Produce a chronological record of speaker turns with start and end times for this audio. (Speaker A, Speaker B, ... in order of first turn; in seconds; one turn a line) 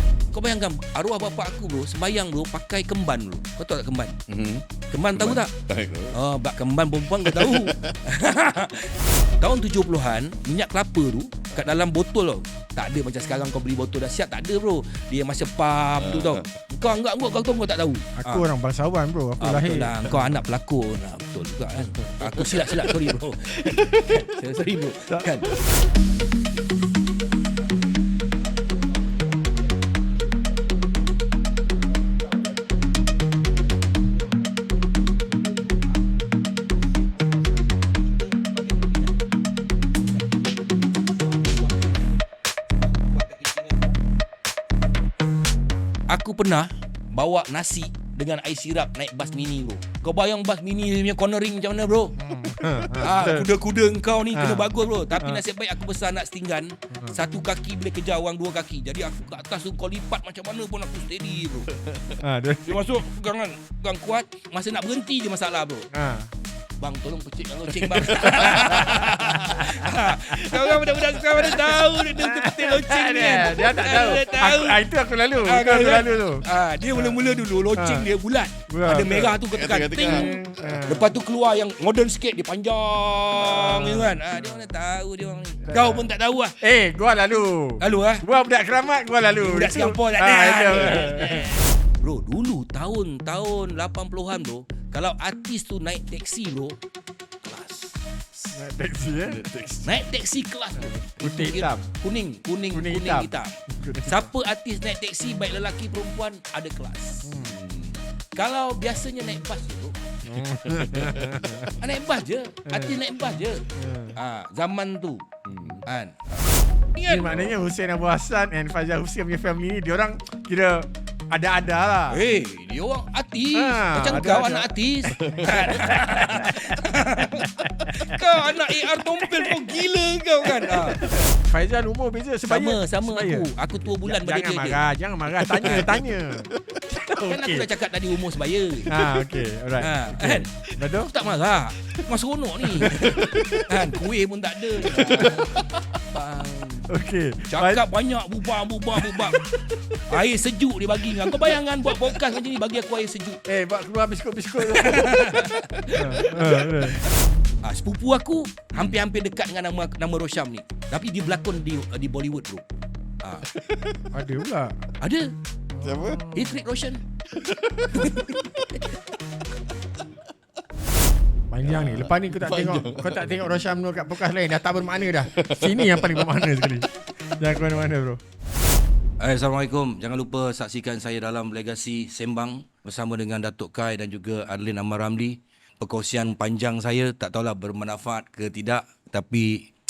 Speaker A: 0.3-4.2
Speaker B: 4.3-6.2
Speaker A: 4.9-5.5
Speaker A: 6.1-18.5
Speaker B: 7.1-8.0
Speaker B: 16.0-16.5
Speaker C: 18.2-20.3
Speaker A: 19.4-26.4
Speaker B: 22.3-22.8
Speaker B: 23.6-24.2
Speaker A: 28.9-29.2
Speaker A: 32.2-32.6
Speaker A: 34.0-34.6
Speaker A: 35.2-35.9
Speaker A: 37.0-39.3
Speaker A: 40.0-42.1
Speaker A: 42.8-43.9
Speaker A: 46.1-52.2
Speaker C: 52.2-53.5
Speaker A: 53.0-61.7
Speaker C: 54.3-55.4
Speaker C: 56.9-57.2
Speaker B: 61.7-62.2
Speaker C: 62.2-62.7
Speaker A: 62.6-65.8
Speaker C: 65.9-66.3
Speaker A: 66.8-86.6
Speaker B: 67.8-69.6
Speaker C: 71.6-77.2
Speaker C: 77.7-78.1
Speaker C: 78.7-79.4
Speaker B: 79.5-80.8
Speaker C: 80.1-81.1
Speaker C: 85.7-86.0
Speaker C: 86.6-91.5
Speaker A: 87.8-88.2
Speaker A: 89.3-96.8
Speaker A: 97.4-98.6
Speaker C: 98.5-99.4
Speaker B: 99.2-99.9
Speaker A: 99.8-107.4
Speaker C: 100.8-101.8
Speaker C: 102.7-104.3
Speaker C: 107.2-107.6
Speaker B: 107.4-108.0
Speaker A: 108.3-110.0
Speaker C: 110.2-111.7
Speaker B: 110.4-111.7
Speaker A: 111.7-115.2
Speaker C: 112.7-113.0
Speaker C: 113.8-114.2
Speaker B: 115.4-115.8
Speaker A: 115.8-117.4
Speaker C: 117.1-122.2
Speaker A: 122.1-131.1
Speaker C: 123.5-124.7
Speaker B: 125.1-125.9
Speaker C: 126.3-126.8
Speaker C: 127.3-128.2
Speaker C: 130.5-133.5
Speaker A: 132.5-134.8
Speaker C: 134.0-137.7
Speaker A: 135.5-136.0
Speaker B: 135.8-136.7
Speaker A: 137.2-138.9
Speaker C: 138.8-141.1
Speaker A: 139.8-146.9
Speaker C: 142.7-143.4
Speaker B: 143.1-143.7
Speaker B: 144.8-145.3
Speaker C: 145.0-145.3
Speaker C: 146.9-147.8
Speaker A: 147.5-149.4
Speaker C: 149.1-150.0
Speaker A: 150.1-153.4
Speaker C: 153.5-157.1
Speaker A: 154.6-162.7
Speaker A: 163.2-163.5
Speaker B: 163.5-164.1
Speaker C: 164.1-164.8
Speaker A: 165.0-165.3
Speaker C: 165.7-166.4
Speaker B: 165.8-166.4
Speaker A: 166.3-167.0
Speaker B: 167.3-168.8
Speaker A: 167.9-168.9
Speaker C: 171.5-178.2
Speaker B: 171.6-173.6
Speaker B: 175.3-176.3
Speaker A: 179.2-189.7